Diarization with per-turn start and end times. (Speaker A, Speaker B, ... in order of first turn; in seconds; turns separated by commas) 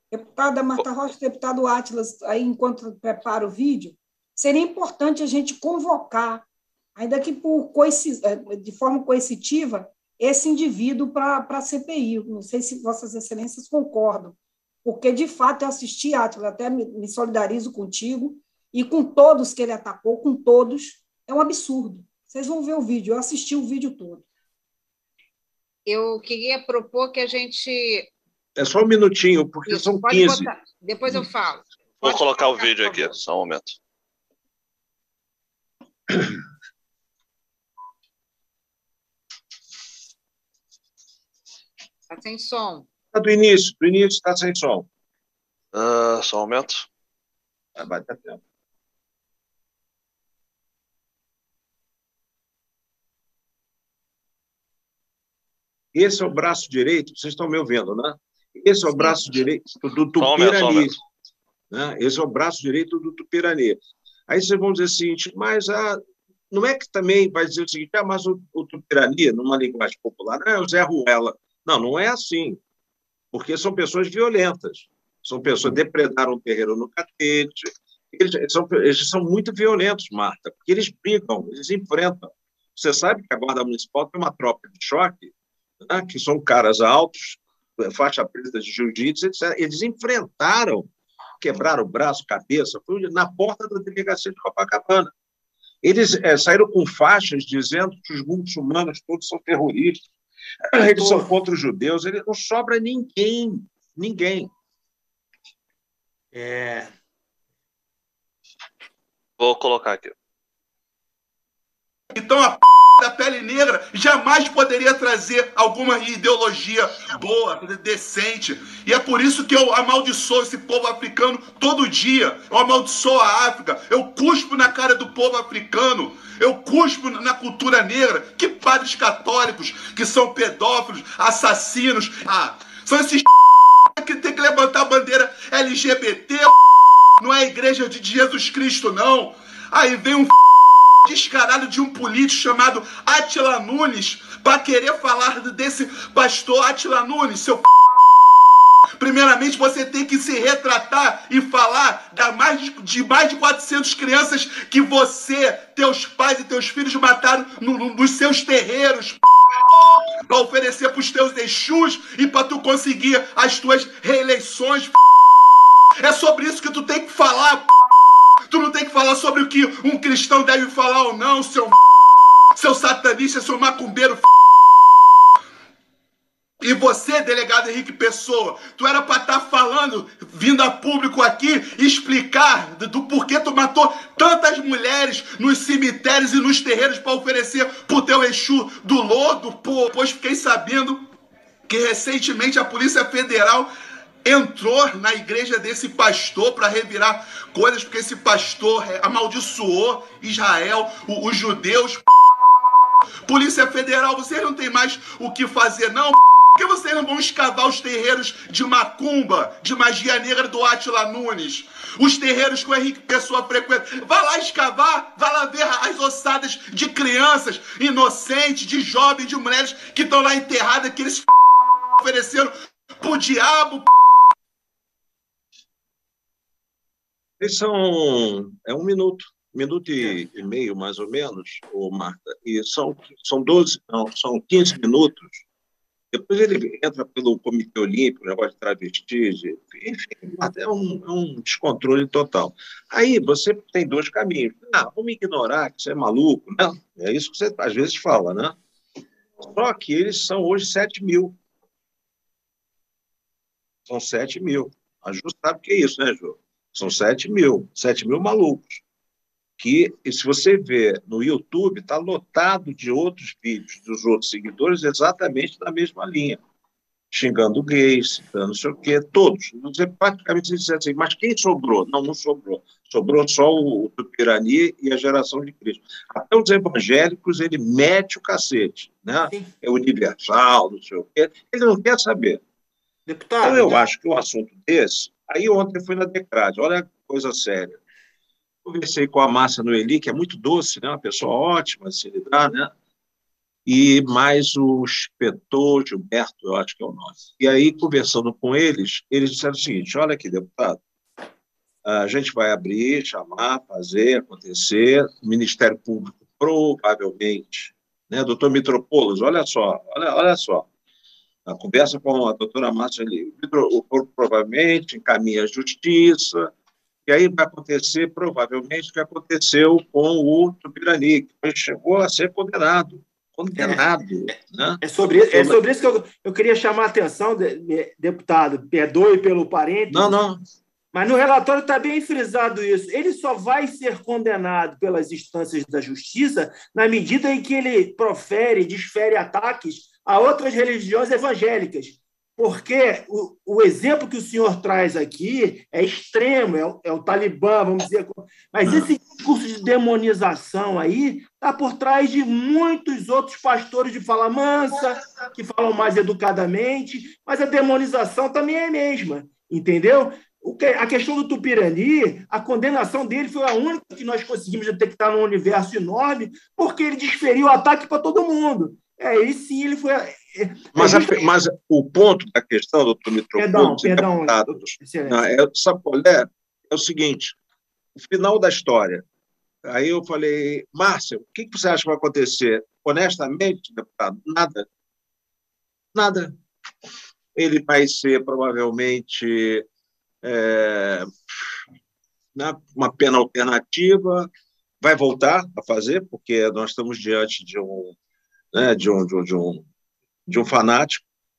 Speaker A: 0.1-24.2, Speaker B: 25.9-28.1, Speaker C: 28.6-30.5, Speaker B: 29.7-33.1, Speaker D: 32.0-33.8, Speaker B: 42.1-42.9, Speaker C: 43.1-44.9, Speaker D: 45.7-46.9, Speaker C: 47.8-48.4, Speaker C: 55.9-61.0, Speaker B: 58.9-59.2, Speaker D: 60.2-61.0, Speaker C: 61.7-72.6, Speaker C: 73.3-95.1, Speaker C: 95.8-100.0, Speaker C: 100.7-104.5, Speaker E: 100.7-101.3, Speaker E: 106.3-106.9, Speaker D: 109.4-110.1, Speaker F: 112.1-133.2, Speaker F: 133.9-136.5, Speaker F: 137.2-140.3, Speaker F: 141.0-147.6, Speaker F: 149.0-159.2, Speaker F: 160.3-164.9, Speaker F: 166.0-167.7, Speaker F: 168.5-171.8, Speaker F: 172.6-174.3, Speaker F: 176.6-191.1, Speaker F: 191.7-193.7, Speaker F: 194.2-202.0, Speaker F: 203.3-221.3, Speaker F: 222.0-223.9, Speaker C: 227.4-235.4, Speaker C: 236.1-248.6, Speaker C: 249.4-251.4, Speaker C: 253.9-258.8, Speaker C: 259.6-266.4, Speaker C: 267.1-282.4, Speaker E: 283.1-283.8, Speaker C: 283.4-287.8, Speaker C: 288.6-292.7, Speaker C: 293.6-300.8, Speaker C: 301.8-310.7, Speaker C: 311.4-316.5, Speaker C: 317.1-325.6, Speaker E: 323.5-323.8, Speaker E: 324.8-330.1, Speaker C: 329.9-330.4, Speaker E: 330.9-371.2, Speaker C: 370.8-377.4, Speaker E: 373.4-375.2, Speaker C: 378.0-379.1, Speaker C: 379.6-384.7, Speaker C: 385.9-386.4, Speaker C: 387.3-389.6, Speaker C: 390.2-391.1, Speaker C: 392.3-397.9, Speaker C: 398.5-399.7, Speaker C: 400.3-401.0